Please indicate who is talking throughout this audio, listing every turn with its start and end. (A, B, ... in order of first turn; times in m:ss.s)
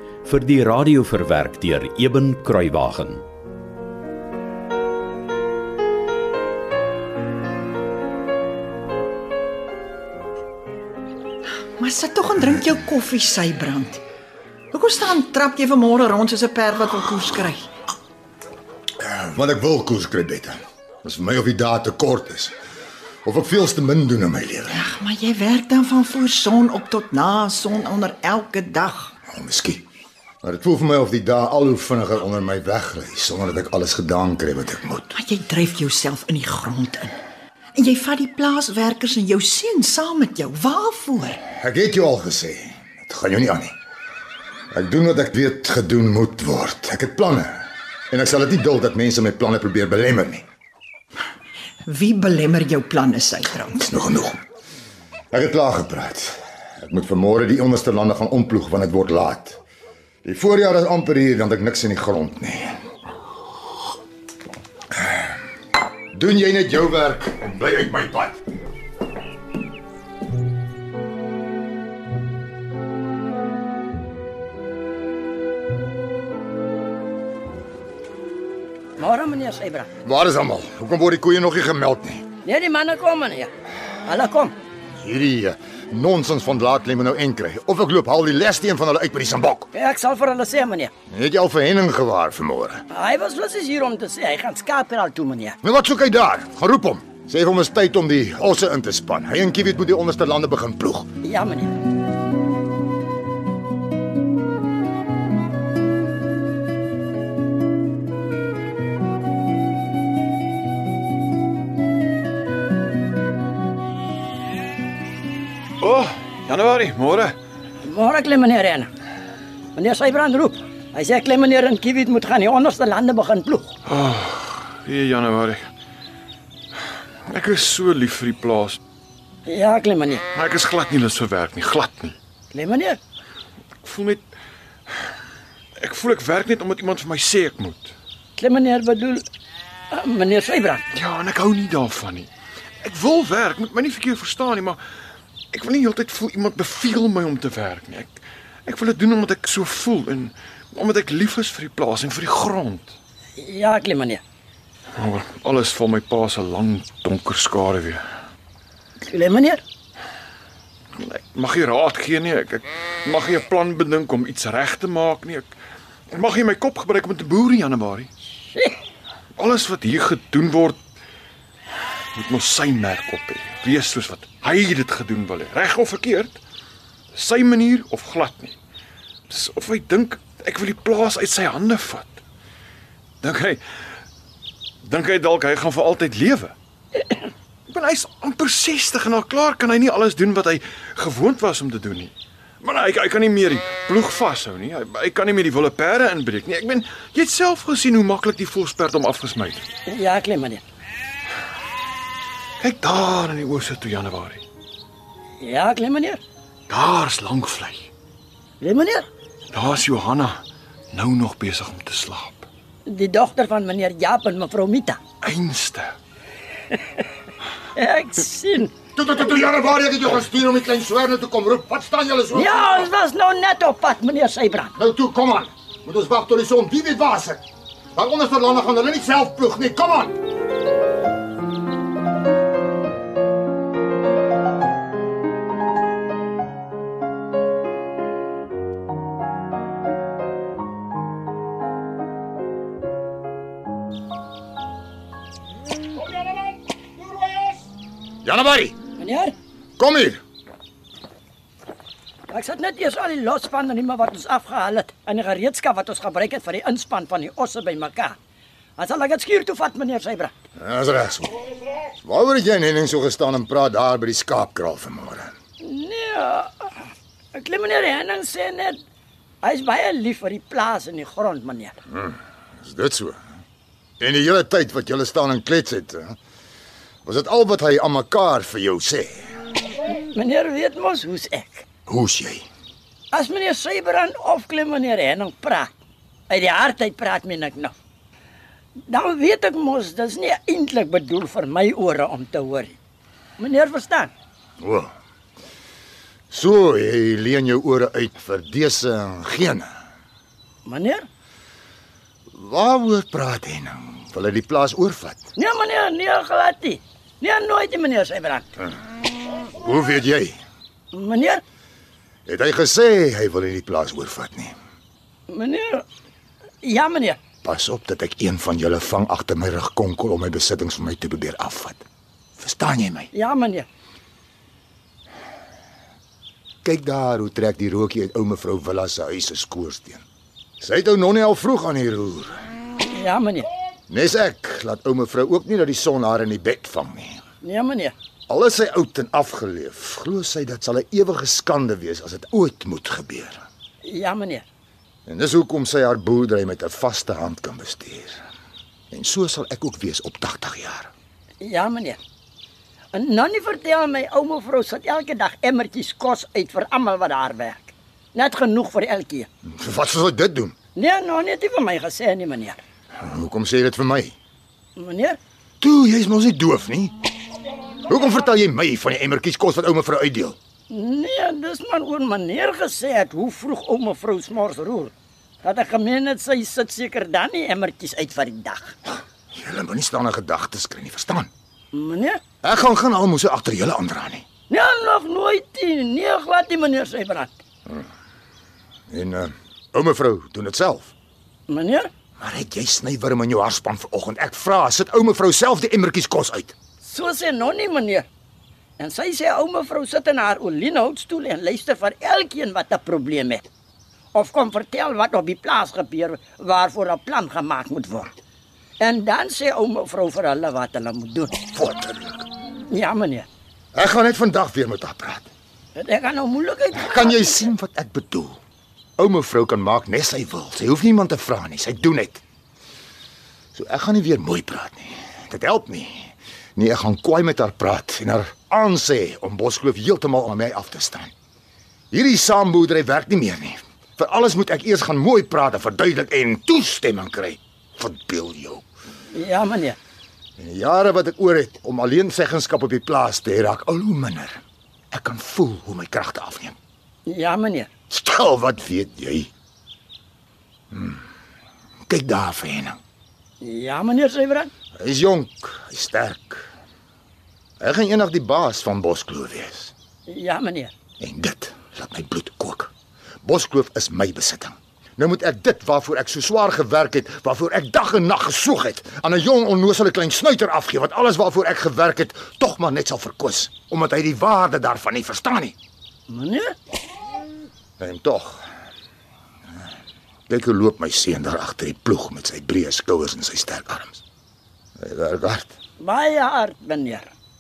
0:00.2-0:03.2 A
0:11.8-0:14.0 B
0:14.7-0:17.7 B
0:19.0-0:22.5 C
0:23.2-0:24.8 C
0:24.7-0:29.1 B
0:29.3-0:29.8 C
0:30.4-0:35.1 C
0:35.1-0:37.1 B
0:37.7-0:41.4 B
0:41.5-0:43.7 C
0:44.7-0:50.4 C
0:51.8-0:53.8 B
0:53.8-0:54.4 C
0:55.3-0:59.6 C
1:00.2-1:02.8 C
1:05.0-1:05.3 C
1:06.1-1:08.4 C
1:19.0-1:19.9 D
1:20.0-1:22.2 C
1:22.4-1:23.5 D
1:24.0-1:24.5 D
1:25.0-1:29.7 C
1:29.7-1:30.9 D
1:31.1-1:32.8 C
1:32.9-1:35.6 D
1:35.6-1:41.1 C
1:41.2-1:41.7 D
1:55.8-1:57.4 E
1:57.8-1:58.9 D
1:59.7-2:03.7 D
2:03.8-2:05.6 E
2:07.2-2:08.8 E
2:09.4-2:10.2 D
2:10.3-2:12.2 E
2:12.5-2:13.0 D
2:13.8-2:14.2 E
2:15.8-2:17.9 E
2:18.4-2:19.2 D
2:19.9-2:20.9 D
2:20.9-2:22.3 E
2:22.8-2:24.8 E
2:25.5-2:33.0 E
2:33.4-2:34.2 D
2:35.0-2:38.0 E
2:39.0-2:39.6 D
2:40.9-2:45.5 E
2:46.1-2:48.1 E
2:48.5-2:48.8 D
2:49.4-2:50.8 E
2:52.1-2:56.4 E
2:57.1-2:58.6 E
2:59.3-3:02.2 E
3:03.2-3:03.6 E
3:04.8-3:06.5 E
3:07.7-3:19.7 E
3:19.9-3:20.6 D
3:22.6-3:24.4 E
3:25.4-3:26.2 D
3:26.7-3:27.9 E
3:28.6-3:29.1 D
3:29.5-3:30.4 E
3:30.9-3:32.5 E
3:32.8-3:35.0 D
3:35.2-3:35.9 E
3:36.7-3:37.0 D
3:37.7-3:38.7 D
3:38.9-3:42.8 C
3:42.3-3:44.7 D
3:44.8-3:47.4 C
3:47.9-3:50.2 C
4:08.2-4:08.8 C
4:09.0-4:09.3 D
4:09.8-4:10.2 C
4:12.3-4:18.2 D
4:18.8-4:20.3 D
4:20.6-4:21.4 C
4:22.0-4:25.3 C
4:25.6-4:26.7 D
4:27.3-4:28.8 D
4:29.4-4:31.7 D
4:31.9-4:33.2 C
4:34.0-4:36.1 C
4:37.0-4:39.3 C
4:39.9-4:41.6 D
4:41.9-4:42.5 C
4:43.1-4:45.7 D
4:46.3-4:47.7 D
4:48.8-4:52.8 D
4:53.4-4:54.1 D
4:54.6-4:54.9 C
4:56.3-4:59.7 C
5:00.6-5:01.0 D
5:02.3-5:05.2 C
5:05.4-5:08.5 D
5:09.4-5:10.4 C
5:10.9-5:11.4 D
5:12.2-5:14.6 C
5:15.3-5:15.8 D
5:16.6-5:17.2 D
5:17.4-5:21.8 C
5:22.4-5:23.1 C
5:23.1-5:23.7 D
5:26.6-5:30.0 C
5:30.6-5:32.4 C
5:32.9-5:33.5 D
5:33.9-5:37.2 C
5:37.4-5:37.9 D
5:38.3-5:43.4 C
5:43.8-5:44.4 D
5:45.1-5:48.2 C
5:48.9-5:50.9 C
5:51.4-5:52.0 D
5:52.9-5:59.3 D
5:59.5-6:00.5 C
6:00.7-6:02.6 D
6:03.0-6:04.1 C
6:04.8-6:05.2 D
6:05.6-6:06.9 C
6:07.8-6:10.4 C
6:10.7-6:14.9 D
6:15.4-6:18.8 D
6:19.3-6:21.3 C
6:21.7-6:22.2 D
6:22.4-6:24.2 C
6:24.5-6:27.3 D
6:28.9-6:30.9 C
6:31.5-6:31.9 D
6:32.2-6:36.6 C
6:36.8-6:38.0 D
6:38.8-6:43.5 D
6:44.1-6:48.2 D
6:48.8-6:51.4 D
6:51.5-6:52.3 C
6:52.7-6:53.3 D
6:53.7-6:55.3 C
6:55.7-6:57.4 D
6:56.8-6:58.3 C
6:59.0-7:02.2 C
7:03.5-7:11.1 C
7:11.9-7:18.6 C
7:19.1-7:19.8 D
7:20.4-7:24.4 C
7:24.9-7:26.6 C
7:27.0-7:27.7 D
7:27.9-7:29.3 C
7:30.7-7:31.0 C
7:31.9-7:32.8 C
7:33.4-7:34.5 D
7:34.8-7:36.5 C
7:37.6-7:39.7 C
7:40.1-7:40.7 D
7:41.0-7:42.7 C
7:43.2-7:55.5 C
7:56.1-7:56.5 D
7:57.8-7:58.4 C
8:00.3-8:04.0 C
8:04.8-8:05.5 C
8:05.8-8:07.1 D